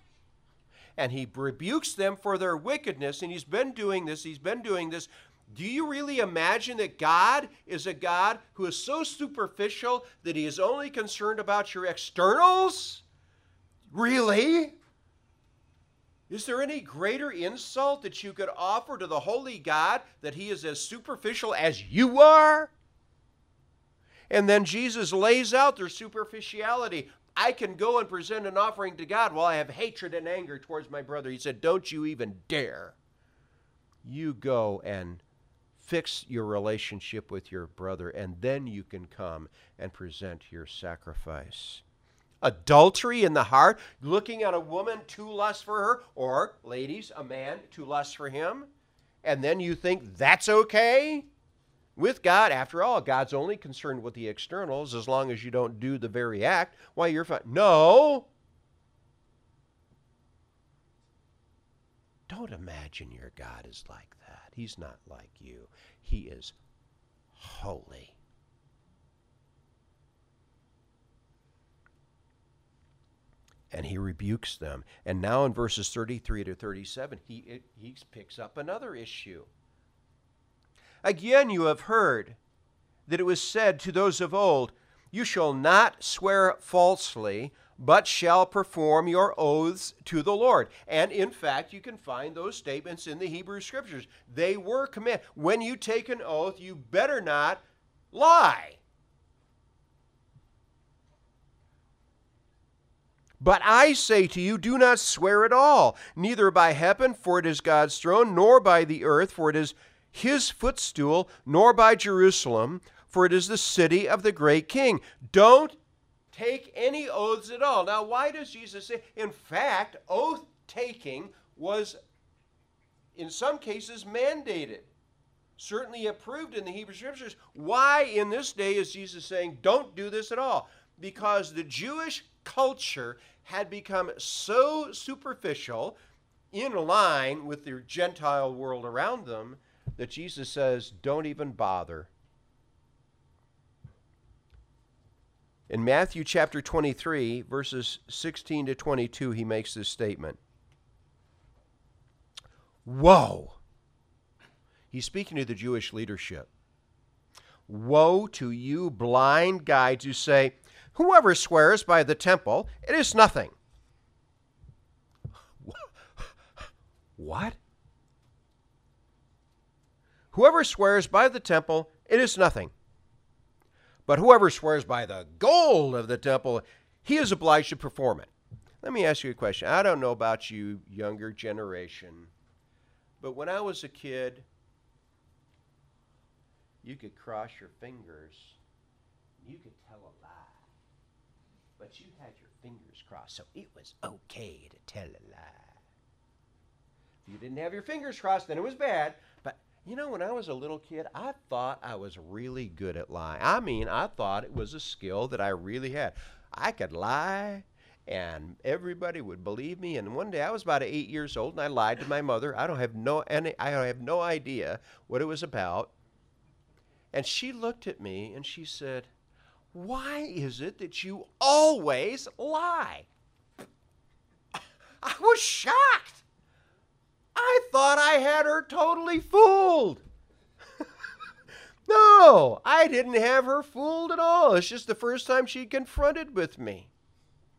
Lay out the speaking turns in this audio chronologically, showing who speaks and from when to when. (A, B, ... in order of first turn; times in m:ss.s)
0:01.0-0:13.0 A
0:13.9-0:14.8 A
0:16.3-0:22.7 A
0:24.3-0:33.0 A
0:34.0-0:35.2 A
0:35.8-0:41.8 A
0:42.4-0:48.7 A
0:49.2-0:51.3 A
0:52.0-0:58.3 A
1:02.3-1:06.6 A
1:07.3-1:08.2 A
1:13.7-1:19.5 A
1:21.0-1:22.4 A
1:23.1-1:38.8 A
1:43.4-1:55.8 A
1:56.3-2:02.0 A
2:03.1-2:04.9 A
2:05.6-2:16.0 A
2:16.5-2:22.1 A
2:25.7-2:30.4 A
2:32.8-2:33.6 A
2:34.9-2:36.5 A
2:37.7-2:43.6 A
2:45.6-2:46.3 A
2:47.2-2:47.6 A
2:50.3-2:52.7 A
2:54.1-3:02.3 A
3:03.2-3:04.5 A
3:06.8-3:08.6 A
3:09.4-3:10.6 A
3:11.8-3:15.8 A
3:17.2-3:35.9 A
3:37.1-3:39.1 A
3:39.7-3:43.1 A
3:45.0-3:46.2 A
3:47.3-3:50.0 A
3:51.9-3:56.9 A